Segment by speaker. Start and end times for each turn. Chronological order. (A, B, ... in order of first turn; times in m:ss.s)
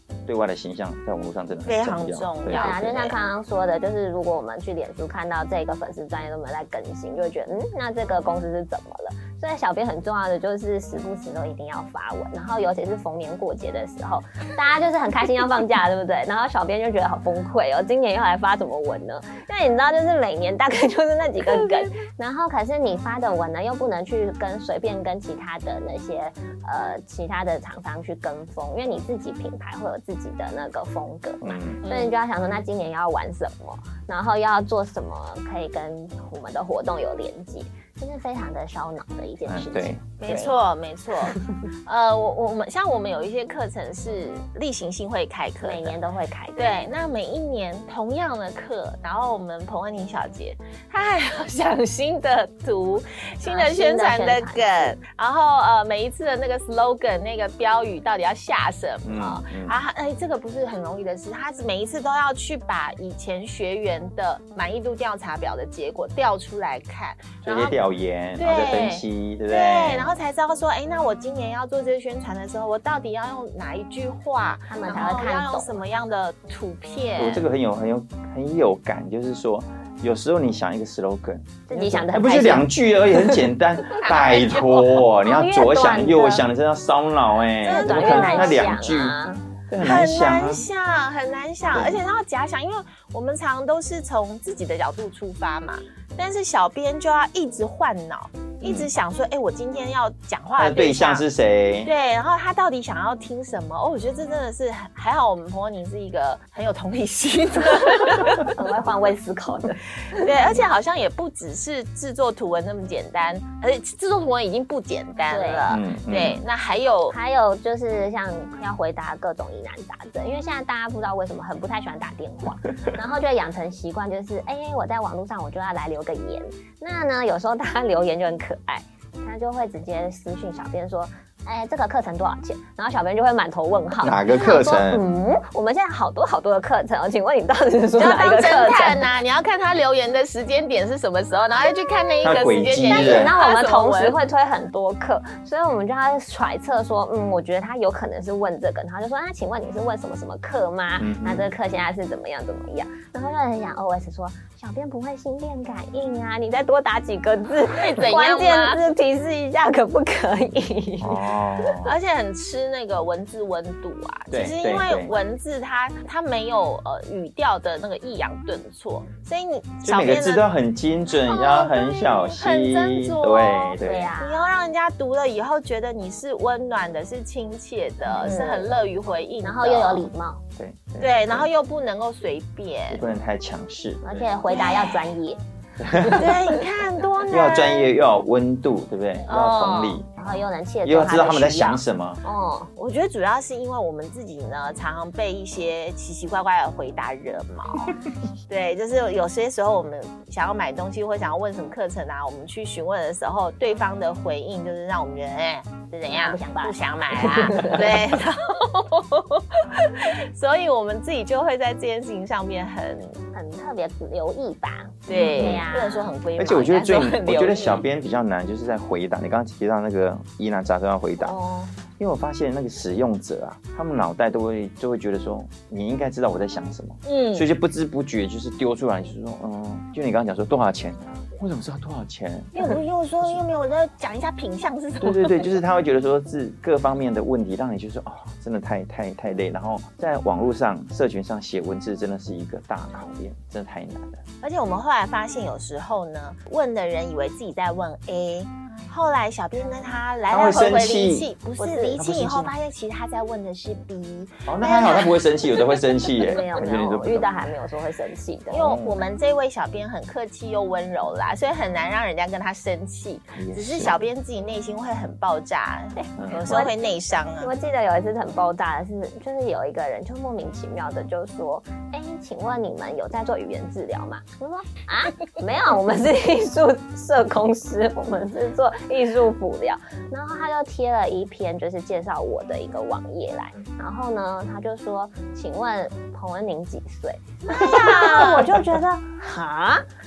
0:00.3-0:02.9 A
0:01.7-0:03.2 B
0:02.5-0:40.6 C
0:21.5-0:21.8 B
0:31.4-0:31.8 A
0:31.8-0:32.1 B
0:39.5-0:40.0 A
0:40.2-0:46.0 B
0:45.6-0:46.9 C
0:46.6-1:07.8 B
0:53.4-0:55.0 C
0:59.0-0:59.8 A
1:07.4-1:10.2 A
1:08.4-1:17.4 B
1:14.7-1:15.8 C
1:17.2-1:30.6 A
1:21.7-1:22.7 C
1:23.9-1:25.0 B
1:25.2-1:26.4 C
1:27.6-1:28.6 B
1:27.6-1:29.4 C
1:29.8-1:41.3 B
1:31.7-1:32.0 A
1:38.6-1:38.9 A
1:40.6-1:41.9 A
1:41.8-1:48.6 B
1:48.4-1:50.3 C
1:50.1-1:57.2 B
1:55.3-1:55.7 C
1:55.7-1:56.4 A
1:57.1-2:19.1 C
2:14.0-2:15.0 A
2:18.0-2:24.2 B
2:22.2-2:23.3 A
2:22.8-2:41.7 C
2:31.0-2:31.5 A
2:37.7-2:38.8 B
2:41.0-2:41.9 A
2:41.8-2:50.5 B
2:44.3-2:45.2 A
2:49.8-2:54.1 A
2:51.3-3:00.1 B
2:53.8-2:54.4 C
2:58.2-2:58.7 C
2:59.4-3:00.4 C
3:00.6-3:01.5 A
3:01.0-3:03.0 B
3:02.9-3:04.4 A
3:04.0-3:05.4 C
3:04.5-3:05.1 B
3:05.8-3:06.4 A
3:06.1-3:07.9 B
3:07.3-3:12.2 A
3:09.3-3:10.0 B
3:10.1-3:12.7 C
3:12.8-3:33.2 B
3:26.0-3:28.0 C
3:33.3-3:36.1 C
3:35.1-3:37.8 B
3:35.1-3:35.7 A
3:36.4-3:41.4 A
3:41.2-3:41.8 C
3:42.0-3:52.8 A
3:47.1-3:47.5 B
3:52.6-3:55.6 B
3:55.0-4:04.2 A
4:04.4-4:15.7 B
4:10.3-4:11.3 A
4:11.6-4:12.1 C
4:12.0-4:12.5 A
4:14.5-4:17.3 A
4:16.1-4:18.8 C
4:18.5-4:27.5 B
4:18.6-4:19.0 A
4:23.4-4:24.0 A
4:26.2-4:26.6 A
4:26.4-4:26.7 C
4:27.4-4:49.8 C
4:47.5-4:48.5 B